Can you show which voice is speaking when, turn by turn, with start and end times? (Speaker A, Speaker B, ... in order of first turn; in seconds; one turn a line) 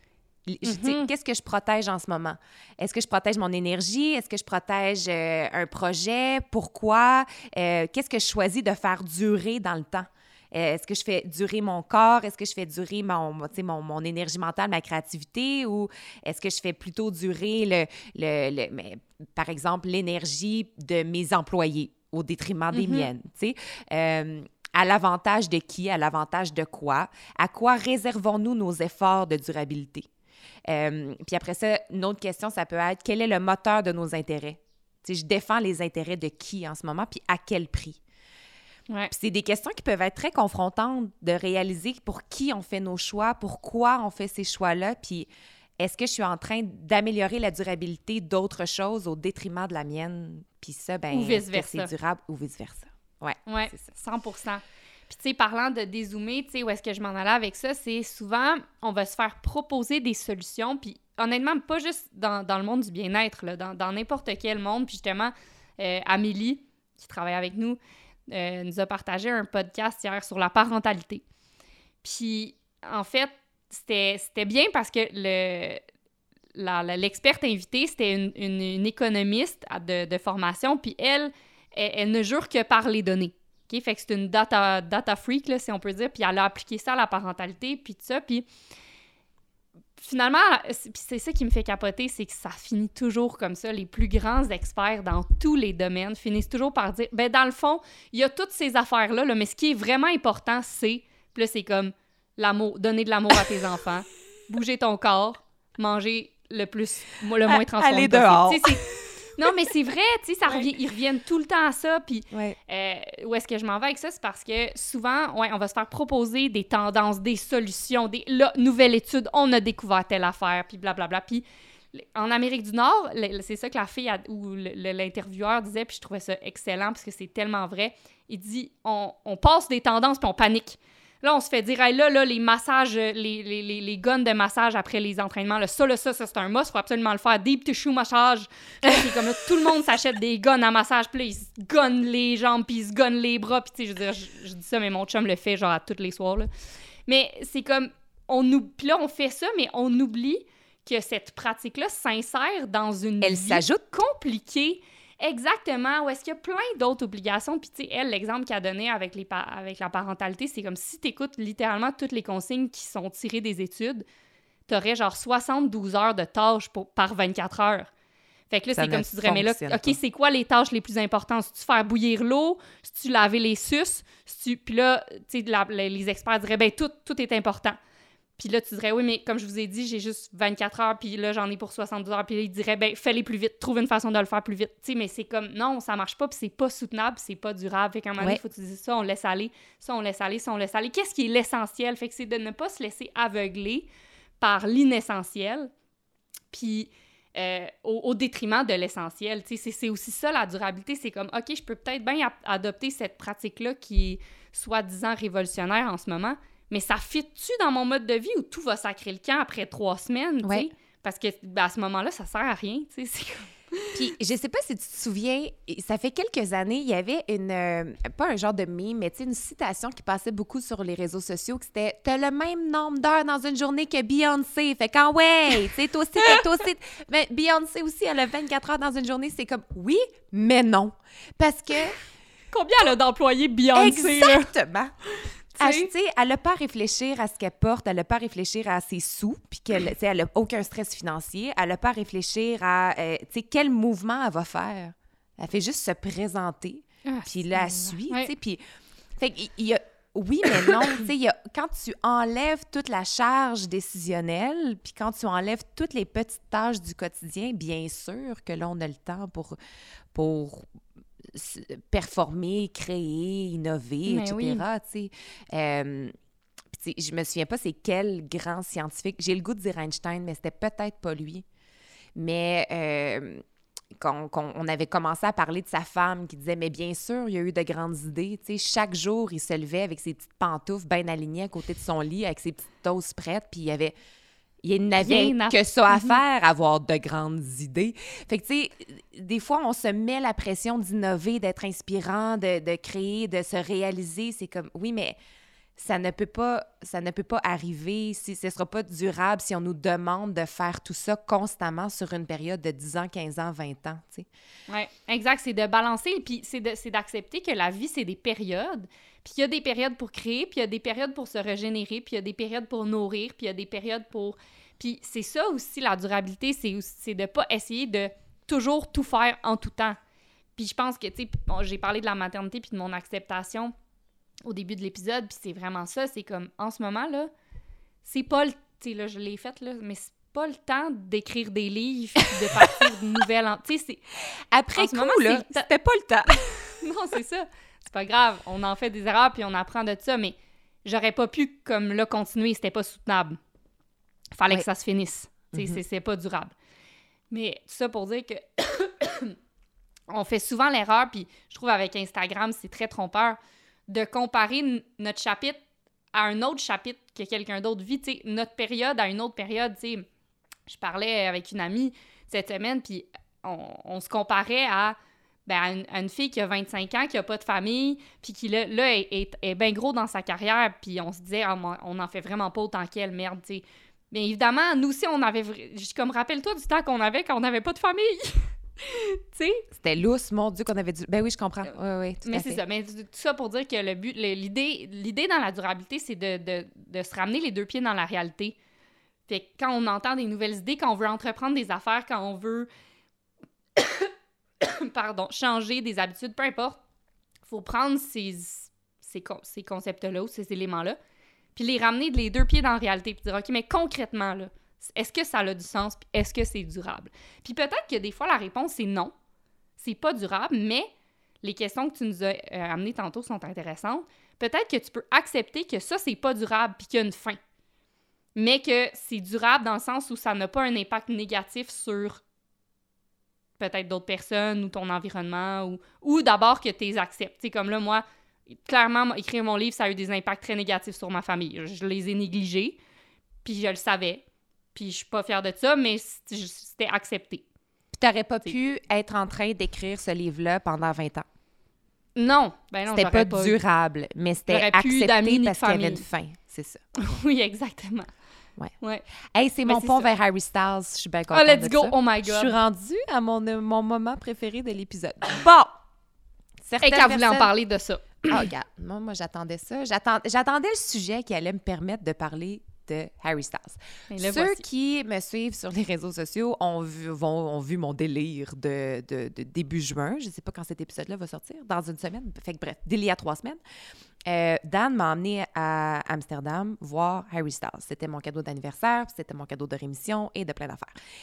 Speaker A: 0.5-30.1
Speaker B: 0.6-1.1
Speaker B: 22.7-23.1
Speaker A: 30.7-38.0
Speaker A: 39.1-45.3
Speaker A: 45.8-53.9
Speaker B: 51.1-51.9
Speaker B: 53.5-71.2
Speaker B: 72.0-75.8
Speaker B: 76.5-88.5
Speaker B: 90.0-108.8
Speaker A: 107.5-109.1
Speaker B: 109.4-146.5
Speaker B: 147.1-164.1
Speaker A: 153.2-153.8
Speaker B: 164.7-167.9
Speaker B: 168.5-177.8
Speaker A: 168.8-170.0
Speaker B: 178.4-193.9
Speaker B: 194.4-195.7
Speaker B: 196.5-214.0
Speaker A: 210.4-210.7
Speaker A: 213.9-232.0
Speaker B: 232.5-234.5
Speaker A: 233.8-234.9
Speaker B: 235.1-235.9
Speaker A: 235.6-248.6
Speaker B: 247.1-248.3
Speaker A: 249.2-259.6
Speaker A: 260.1-260.6
Speaker A: 261.2-266.1
Speaker B: 264.1-264.6
Speaker A: 266.7-271.4
Speaker A: 272.1-273.4
Speaker A: 274.0-283.9
Speaker A: 284.6-295.2
Speaker B: 285.0-286.2
Speaker A: 295.8-304.3
Speaker B: 304.7-320.0
Speaker B: 320.6-323.7
Speaker B: 324.4-327.3
Speaker B: 328.0-334.0
Speaker A: 334.5-336.8
Speaker B: 334.8-335.7
Speaker B: 336.3-343.4
Speaker B: 344.4-346.5
Speaker B: 347.3-349.4
Speaker B: 350.1-355.6
Speaker B: 356.1-360.1
Speaker B: 360.7-379.6
Speaker A: 379.7-382.6
Speaker B: 382.2-388.6
Speaker B: 389.3-392.7
Speaker B: 393.8-394.1
Speaker B: 394.6-396.8
Speaker B: 397.5-401.0
Speaker B: 401.6-409.1
Speaker B: 409.8-410.9
Speaker B: 411.4-417.4
Speaker B: 418.4-422.2
Speaker B: 423.6-432.8
Speaker B: 433.4-434.2
Speaker B: 434.8-437.4
Speaker A: 437.9-441.3
Speaker B: 442.2-443.6
Speaker A: 442.9-446.9
Speaker B: 444.5-446.0
Speaker B: 447.0-448.1
Speaker A: 449.4-455.8
Speaker B: 449.6-450.1
Speaker B: 451.3-452.6
Speaker A: 456.6-457.5
Speaker B: 456.8-458.4
Speaker A: 458.3-473.6
Speaker B: 464.1-464.6
Speaker A: 474.2-480.9